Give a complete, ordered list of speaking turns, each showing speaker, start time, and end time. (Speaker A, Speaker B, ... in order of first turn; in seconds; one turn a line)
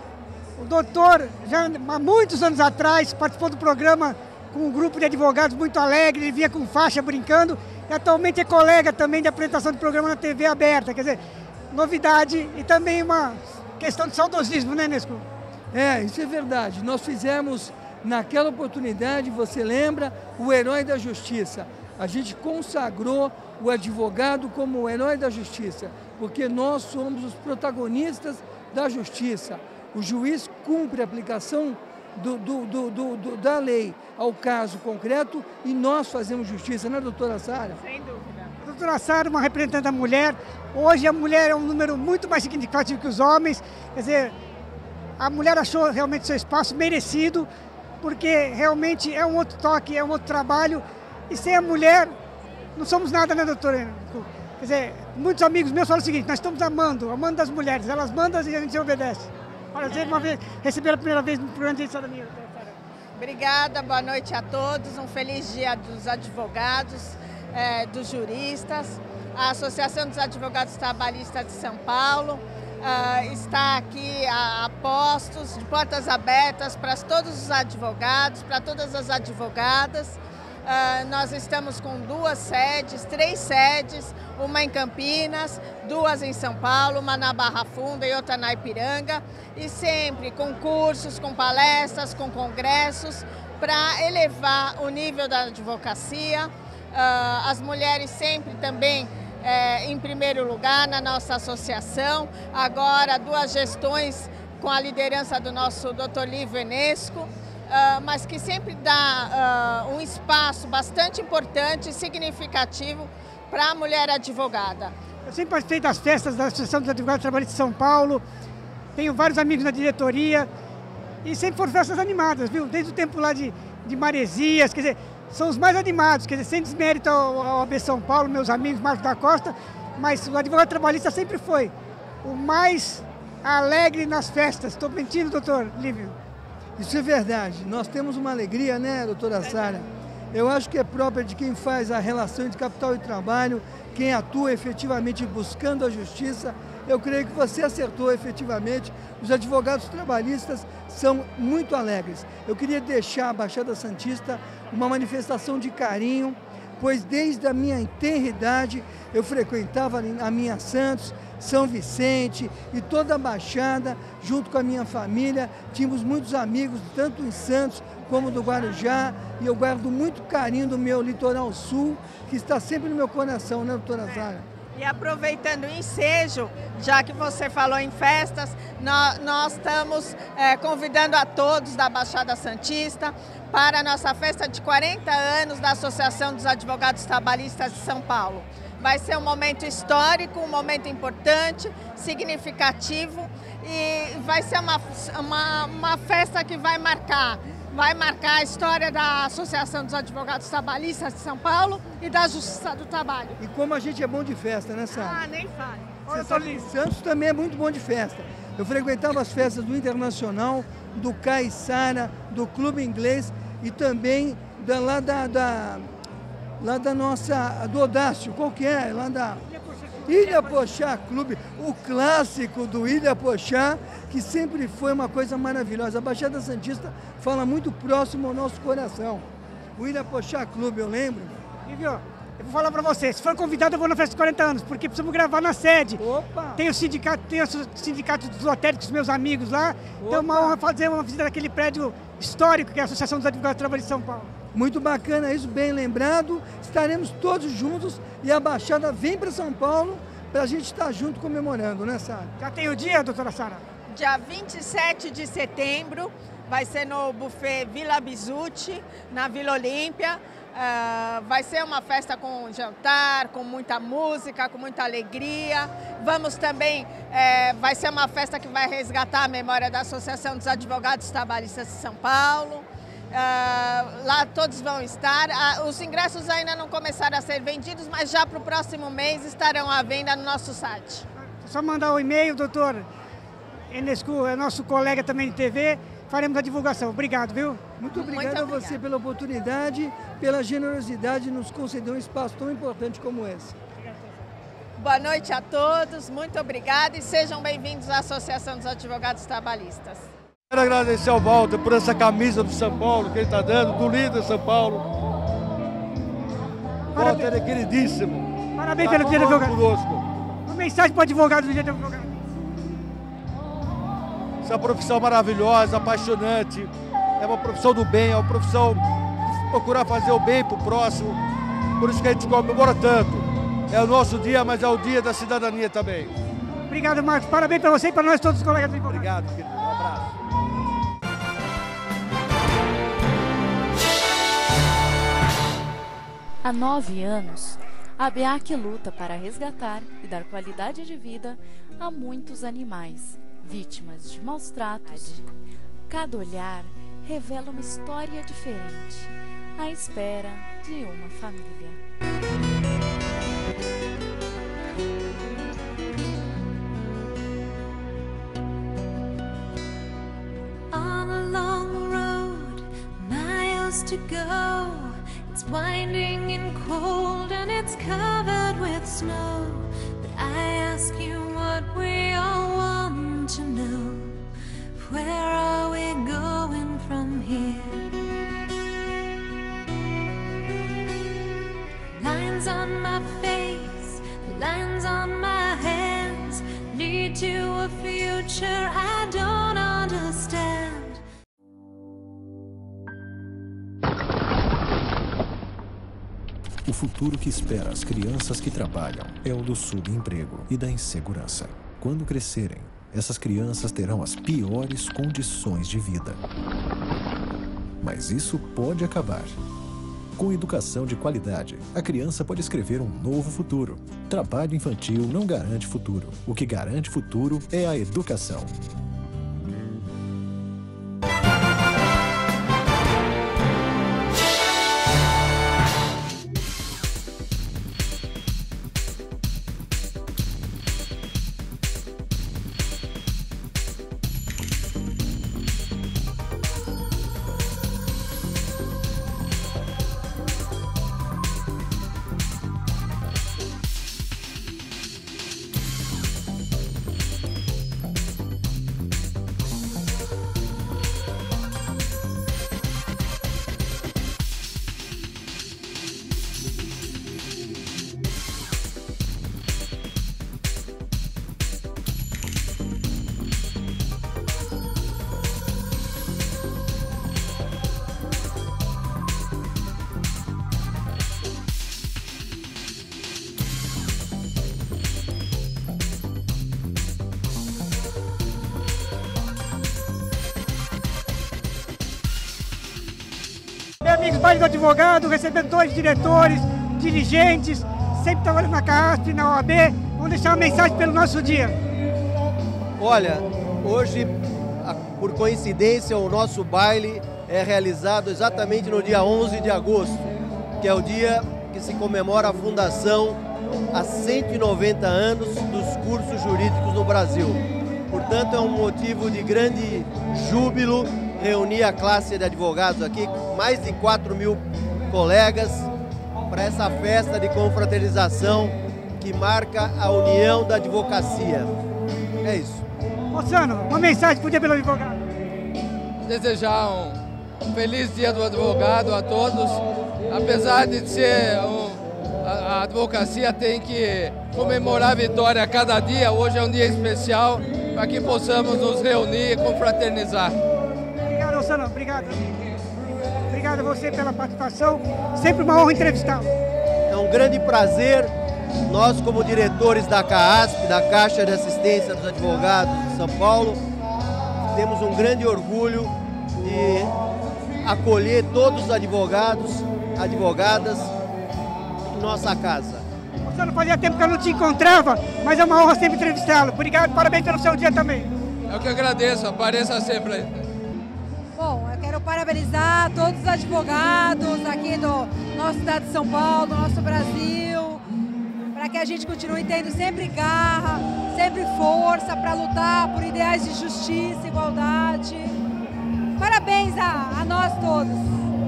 Speaker A: 0.6-11.2
Speaker A: 11.7-15.2
Speaker B: 15.7-37.8
Speaker C: 37.8-38.5
Speaker A: 38.6-44.3
Speaker A: 45.2-47.5
Speaker A: 48.0-52.1
Speaker A: 52.8-62.8
Speaker C: 63.1-114.9
Speaker A: 115.2-118.2
Speaker A: 119.0-120.5
Speaker A: 121.2-131.7
Speaker A: 132.2-136.2
Speaker B: 136.8-174.4
Speaker C: 174.7-203.4
Speaker B: 203.4-205.2
Speaker C: 204.9-206.0
Speaker A: 206.1-206.7
Speaker B: 206.1-215.8
Speaker B: 216.6-219.4
Speaker A: 219.5-220.7
Speaker B: 220.1-229.2
Speaker B: 229.8-231.4
Speaker A: 231.7-236.0
Speaker B: 236.0-236.6
Speaker A: 236.6-244.3
Speaker B: 240.0-240.6
Speaker B: 244.5-252.3
Speaker A: 252.4-253.6
Speaker C: 253.9-281.0
Speaker A: 281.4-282.9
Speaker A: 283.7-287.6
Speaker B: 287.8-293.6
Speaker C: 287.9-288.8
Speaker C: 294.8-300.1
Speaker D: 300.5-304.8
Speaker A: 306.9-307.3
Speaker D: 306.9-308.2
Speaker A: 308.6-309.6
Speaker D: 308.8-310.0
Speaker A: 310.5-312.2
Speaker D: 314.4-318.8
Speaker D: 319.5-321.2
Speaker D: 321.8-326.1
Speaker A: 326.7-329.1
Speaker D: 328.9-330.1
Speaker E: 336.4-345.2
Speaker E: 345.9-351.8
Speaker F: 360.7-377.9
Speaker F: 382.0-391.0
Speaker G: 396.6-406.2
Speaker G: 407.8-409.4
Speaker G: 410.1-418.6
Speaker A: 483.8-491.6
Speaker H: 492.8-503.2
Speaker H: 503.7-515.7
Speaker H: 516.3-521.5
Speaker H: 522.2-522.6
Speaker A: 523.1-525.0
Speaker I: 526.0-527.0
Speaker I: 527.5-540.3
Speaker A: 541.0-542.3
Speaker A: 543.3-546.3
Speaker H: 546.9-548.1
Speaker H: 548.7-553.6
Speaker H: 554.5-556.9
Speaker H: 557.6-560.9
Speaker H: 561.8-562.8
Speaker A: 563.2-568.1
Speaker I: 568.5-570.5
Speaker J: 571.3-577.8
Speaker J: 578.5-585.4
Speaker J: 586.2-588.2